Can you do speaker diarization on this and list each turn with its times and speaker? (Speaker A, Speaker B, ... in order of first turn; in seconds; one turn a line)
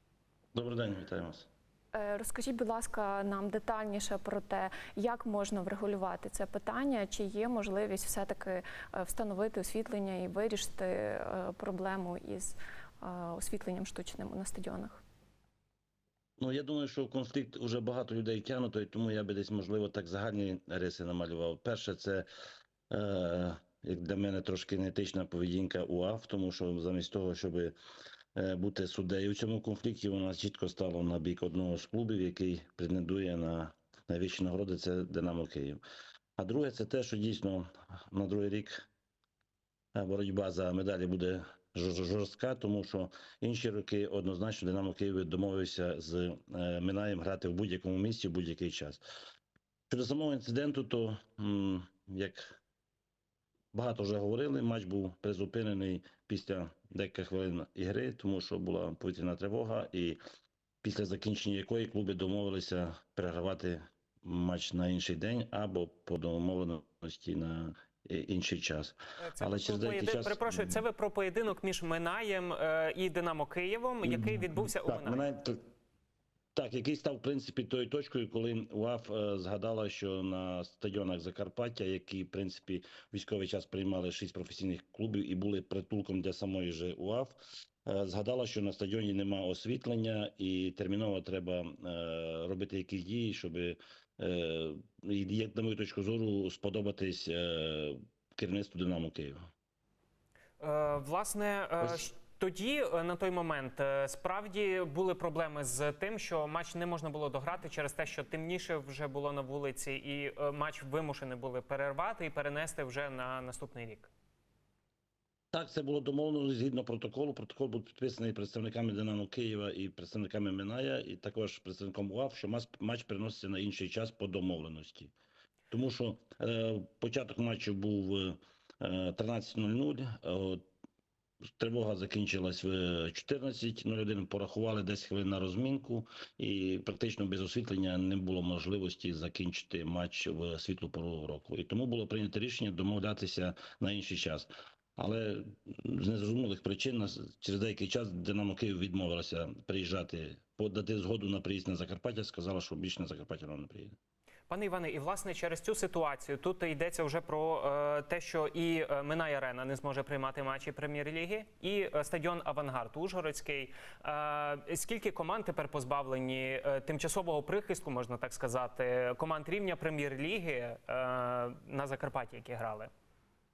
Speaker A: 0.5-1.5
Speaker B: 1.9-15.0
Speaker A: 16.4-22.3
Speaker A: 22.9-27.8
Speaker A: 28.4-35.8
Speaker A: 36.4-38.9
Speaker A: 40.0-49.0
Speaker A: 49.9-52.6
Speaker A: 53.7-60.2
Speaker A: 60.8-70.8
Speaker C: 69.2-75.2
Speaker A: 74.0-75.6
Speaker A: 76.5-99.4
Speaker C: 100.6-114.1
Speaker A: 101.8-102.1
Speaker A: 115.5-125.1
Speaker A: 125.7-130.6
Speaker A: 131.6-154.0
Speaker C: 154.5-172.9